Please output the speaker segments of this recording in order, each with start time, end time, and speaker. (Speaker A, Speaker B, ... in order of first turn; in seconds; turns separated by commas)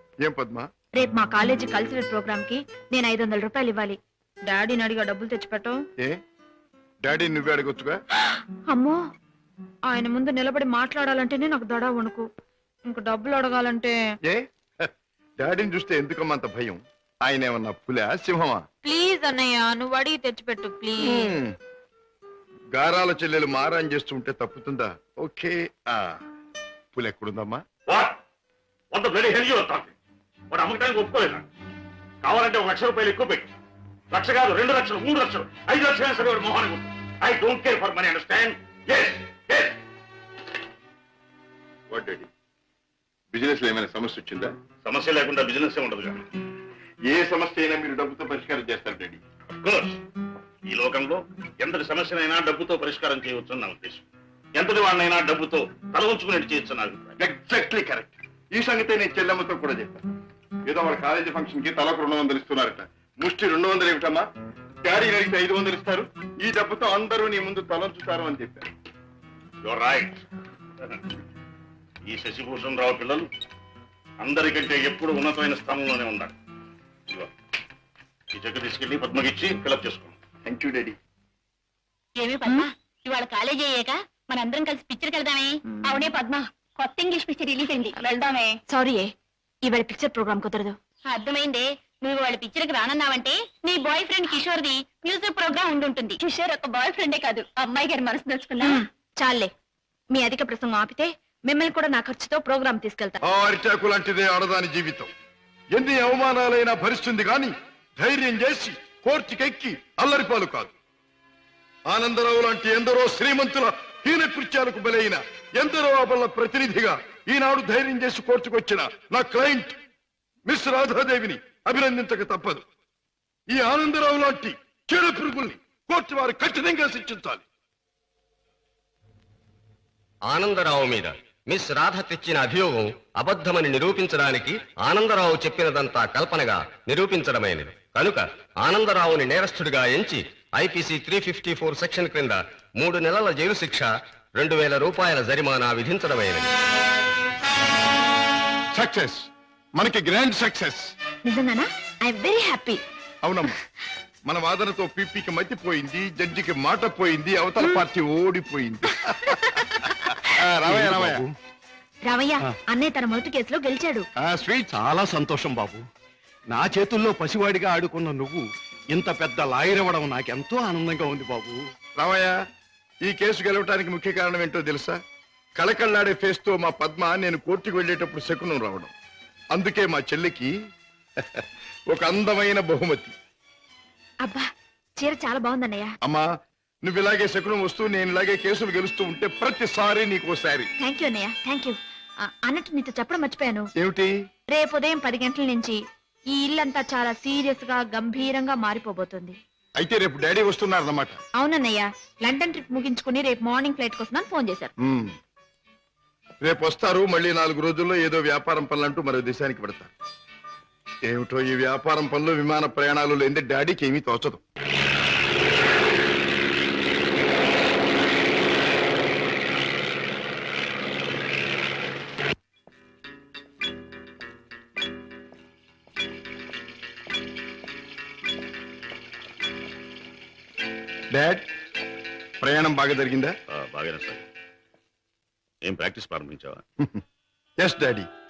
Speaker A: 0.2-0.7, Speaker B: 1.0-5.8, Speaker A: 7.0-8.0, Speaker B: 8.7-9.0, Speaker B: 9.9-12.3, Speaker B: 12.9-14.0, Speaker A: 14.2-18.6, Speaker B: 18.8-21.3, Speaker A: 21.0-21.5, Speaker A: 22.7-26.2, Speaker A: 26.9-27.6, Speaker C: 27.9-28.2, Speaker C: 28.9-29.9, Speaker C: 30.5-31.4, Speaker C: 32.2-33.5, Speaker C: 34.1-39.8, Speaker A: 41.9-42.3, Speaker A: 43.3-44.5, Speaker C: 44.8-46.3, Speaker A: 47.1-49.2, Speaker C: 49.6-50.0, Speaker C: 50.7-57.1, Speaker A: 57.2-60.0, Speaker A: 60.7-64.3, Speaker A: 64.8-68.7, Speaker C: 69.6-70.2, Speaker C: 72.1-73.3, Speaker C: 74.2-76.3, Speaker C: 78.3-80.2, Speaker A: 80.5-81.0, Speaker D: 82.2-88.5, Speaker B: 88.7-89.1, Speaker B: 89.6-90.8, Speaker D: 91.1-98.8, Speaker B: 98.6-99.5, Speaker B: 100.1-103.2, Speaker A: 103.2-105.1, Speaker A: 105.7-110.7, Speaker A: 111.9-119.8, Speaker A: 120.5-122.6, Speaker A: 123.5-127.4, Speaker E: 130.3-146.5, Speaker A: 148.8-149.3, Speaker A: 149.8-150.9, Speaker B: 151.2-152.8, Speaker A: 153.2-153.6, Speaker A: 154.3-159.4, Speaker B: 159.3-160.2, Speaker A: 160.4-161.2, Speaker F: 160.6-161.3, Speaker B: 162.1-164.1, Speaker F: 164.2-165.8, Speaker F: 166.5-171.6, Speaker A: 172.0-172.3, Speaker A: 173.0-175.0, Speaker A: 175.6-178.9, Speaker A: 179.5-180.5, Speaker A: 181.2-183.1, Speaker B: 184.2-184.5, Speaker B: 185.0-185.9, Speaker A: 186.8-190.7, Speaker B: 190.8-193.7, Speaker A: 193.8-194.1, Speaker B: 194.5-195.8, Speaker B: 196.3-199.4, Speaker A: 199.8-201.2, Speaker B: 201.4-204.7, Speaker A: 204.8-205.2, Speaker A: 206.4-209.9, Speaker A: 211.1-214.4, Speaker A: 231.1-231.5, Speaker A: 232.4-233.3, Speaker C: 233.5-234.2, Speaker C: 235.7-236.6, Speaker A: 237.6-238.1